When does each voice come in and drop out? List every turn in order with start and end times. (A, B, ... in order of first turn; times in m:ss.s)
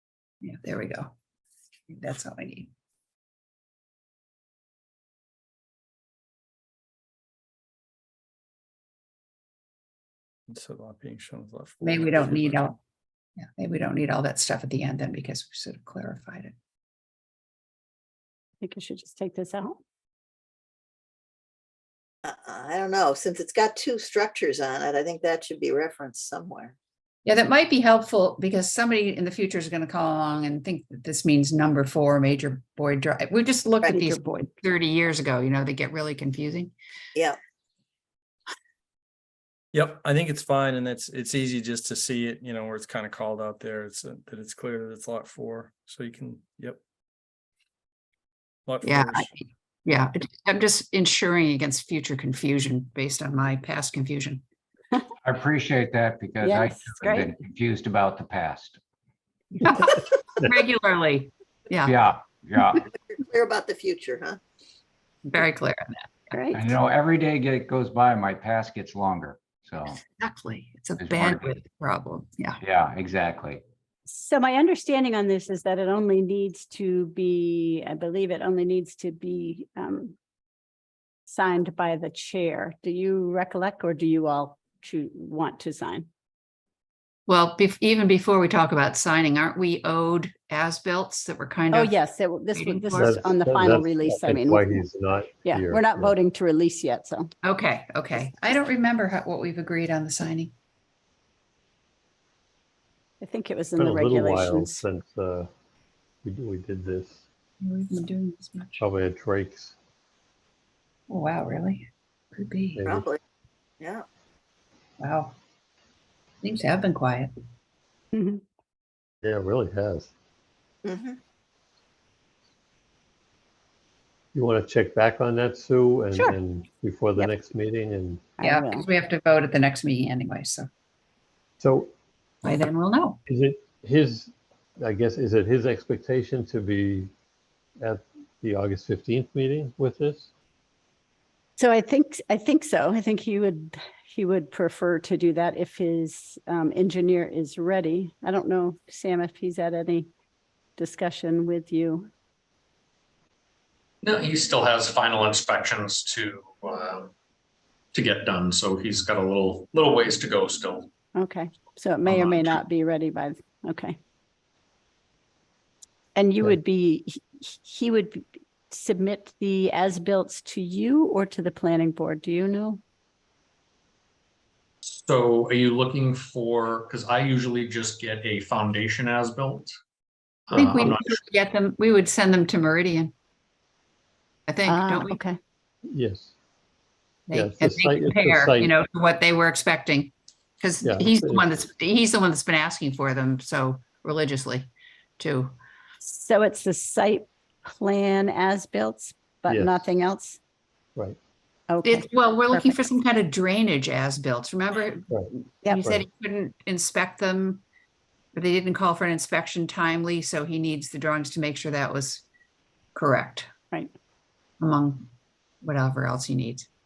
0:00.4-0:01.1 A
0:01.9-0:02.7 A
0:10.5-0:12.8 B
0:11.8-0:12.8 A
0:13.4-0:16.5 A
0:18.6-0:19.8 C
0:22.2-0:26.7 D
0:27.2-0:36.7 A
0:33.9-0:34.4 C
0:39.7-0:46.8 B
0:48.7-0:49.3 B
0:48.8-0:54.4 A
0:55.2-0:58.8 E
0:56.4-0:57.3 C
0:59.6-1:02.0 A
1:01.8-1:02.8 E
1:02.9-1:04.4 D
1:05.3-1:06.1 A
1:06.3-1:06.6 C
1:06.5-1:10.0 E
1:10.1-1:12.6 A
1:11.0-1:11.5 E
1:12.6-1:13.6 E
1:14.1-1:20.1 C
1:21.2-1:26.1 C
1:27.3-1:32.0 A
1:31.7-1:34.8 C
1:32.5-1:33.1 A
1:33.0-1:36.2 F
1:35.4-1:37.3 C
1:37.4-1:40.5 A
1:43.2-1:44.8 C
1:43.8-1:45.5 F
1:46.2-1:47.2 F
1:47.6-1:48.8 A
1:48.8-1:49.8 F
1:51.1-1:52.8 A
1:52.8-1:53.0 F
1:52.8-1:53.2 D
1:53.8-1:54.0 D
1:55.0-1:55.3 A
1:56.4-1:57.3 A
1:58.1-1:58.4 C
1:59.2-2:00.1 F
2:00.8-2:01.2 D
2:04.3-2:08.3 F
2:08.4-2:08.8 C
2:08.4-2:10.7 A
2:11.6-2:11.9 F
2:12.4-2:13.2 A
2:13.3-2:17.1 F
2:17.8-2:20.3 F
2:21.6-2:30.1 C
2:30.8-2:32.1 C
2:34.0-2:37.1 G
2:37.9-2:40.9 G
2:41.2-2:44.0 C
2:42.0-2:42.5 G
2:46.1-2:52.8 C
2:54.8-2:59.7 G
3:00.5-3:01.2 G
3:00.5-3:03.1 A
3:04.5-3:05.2 A
3:04.7-3:05.4 C
3:05.8-3:06.3 F
3:07.3-3:15.5 A
3:07.3-3:08.7 F
3:10.8-3:11.6 F
3:16.0-3:20.4 C
3:19.5-3:19.8 F
3:21.7-3:22.7 C
3:21.8-3:25.1 A
3:25.1-3:26.0 F
3:25.7-3:27.6 A
3:28.3-3:32.2 A
3:33.0-3:33.5 A
3:34.6-3:35.0 A
3:35.6-3:36.6 A